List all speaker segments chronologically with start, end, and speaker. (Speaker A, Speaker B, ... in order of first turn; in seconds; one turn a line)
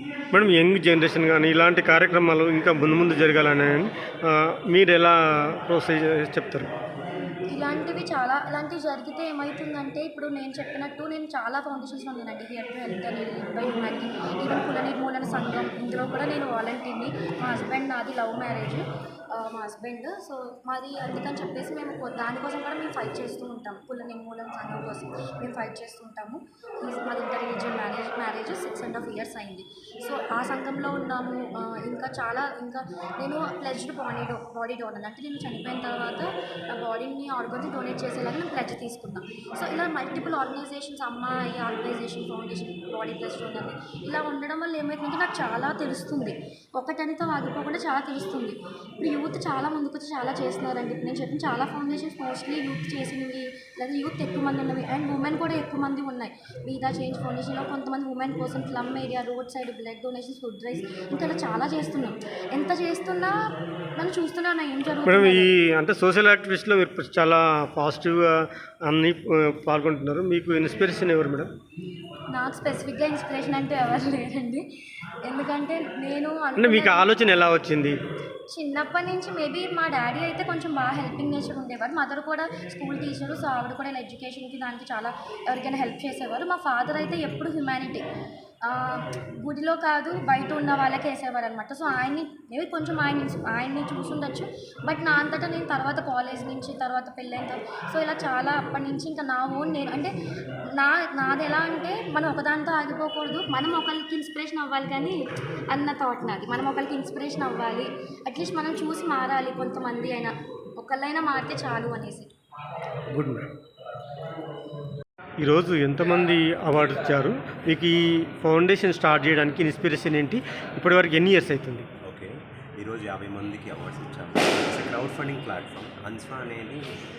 Speaker A: 0.3-6.7
Speaker B: 7.5-63.3
Speaker B: 64.0-65.5
Speaker A: 65.0-68.3
Speaker A: 68.9-71.5
Speaker B: 72.3-74.6
Speaker B: 75.2-77.1
Speaker A: 76.6-77.9
Speaker B: 78.5-88.0
Speaker B: 88.6-100.1
Speaker B: 100.8-105.2
Speaker B: 105.7-112.3
Speaker A: 113.1-113.5
Speaker A: 115.4-121.8
Speaker C: 122.0-126.8